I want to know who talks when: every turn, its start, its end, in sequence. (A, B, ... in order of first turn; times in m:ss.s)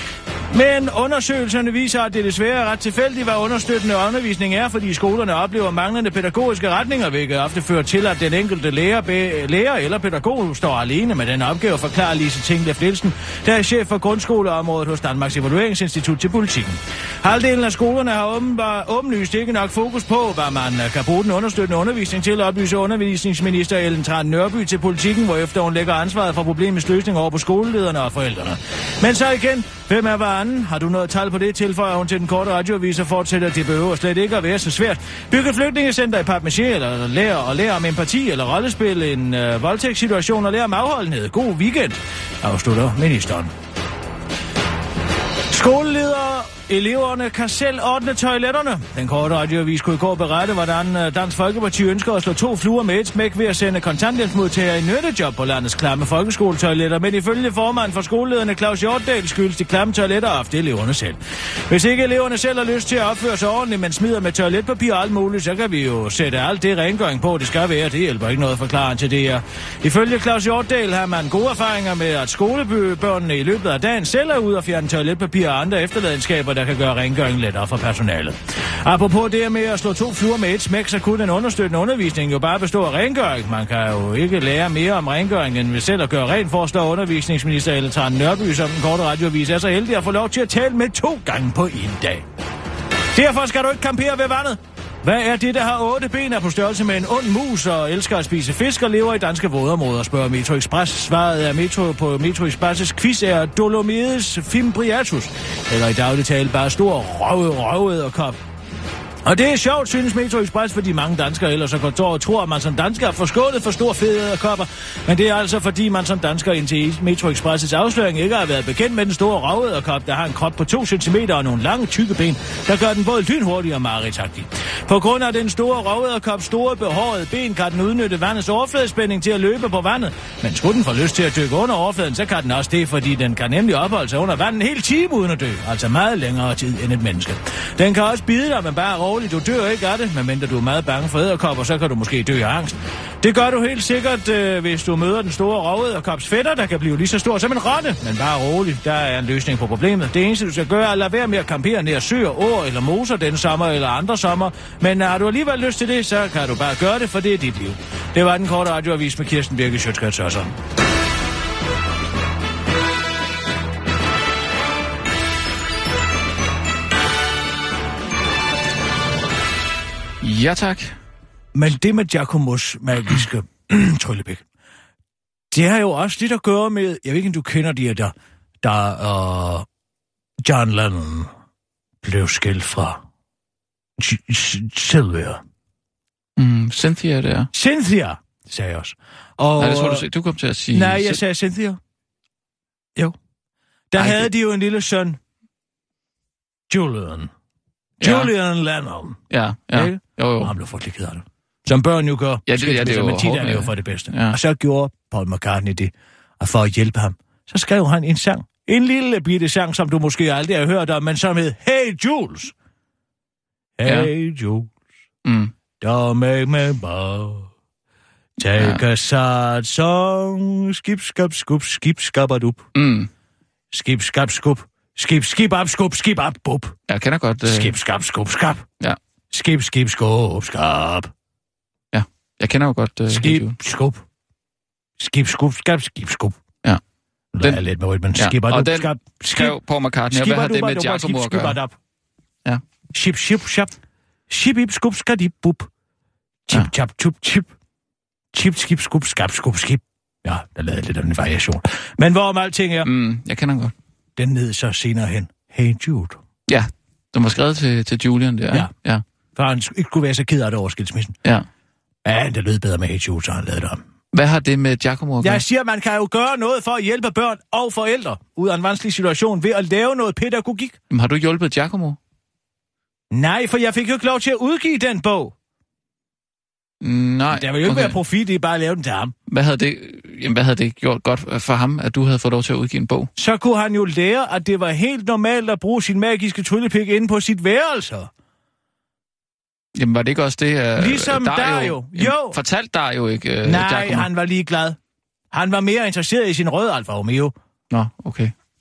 0:00.5-0:43.5 A
0:45.5-1:01.2 A
1:01.7-1:32.2 A
1:33.1-1:48.4 A
1:49.2-2:40.6 A
2:50.2-2:51.0 B
2:51.5-2:54.4 A
2:55.5-2:59.7 A
3:00.4-3:01.3 A
3:02.0-3:03.0 A
3:04.0-3:05.4 A
3:06.4-3:07.5 B
3:07.5-3:10.1 A
3:09.6-3:11.2 B
3:10.7-3:11.8 A
3:13.9-3:15.2 A
3:14.0-3:14.3 B
3:16.7-3:17.3 A
3:18.0-3:19.2 A
3:18.0-3:18.3 B
3:19.3-3:20.5 B
3:19.7-3:32.5 A
3:22.5-3:24.4 B
3:33.8-3:34.7 A
3:35.2-3:35.5 B
3:35.8-3:37.5 A
3:38.4-3:42.7 A
3:42.8-3:43.1 B
3:43.7-3:46.8 A
3:46.9-3:47.7 B
3:47.4-3:48.7 A
3:49.3-3:51.1 A
3:51.9-3:53.6 B
3:53.1-3:54.0 A
3:55.0-3:56.4 A
3:57.3-3:59.6 A
3:58.2-4:01.6 B
4:00.1-4:01.8 A
4:02.9-4:03.7 A
4:04.3-4:05.7 A
4:06.5-4:07.5 A
4:08.3-4:12.9 A
4:12.8-4:13.7 B
4:14.2-4:16.2 A
4:16.5-4:19.0 B
4:19.4-4:21.2 A
4:22.0-4:23.8 A
4:24.1-4:25.4 B
4:25.2-4:30.8 A
4:30.9-4:32.0 B
4:33.1-4:35.3 A
4:36.8-4:38.0 B
4:37.3-4:39.1 A
4:39.3-4:43.1 B
4:43.2-4:48.1 A
4:49.8-4:54.1 B
4:50.8-4:52.4 A
4:53.4-4:54.8 A
4:55.3-4:57.3 A
4:57.7-4:58.3 B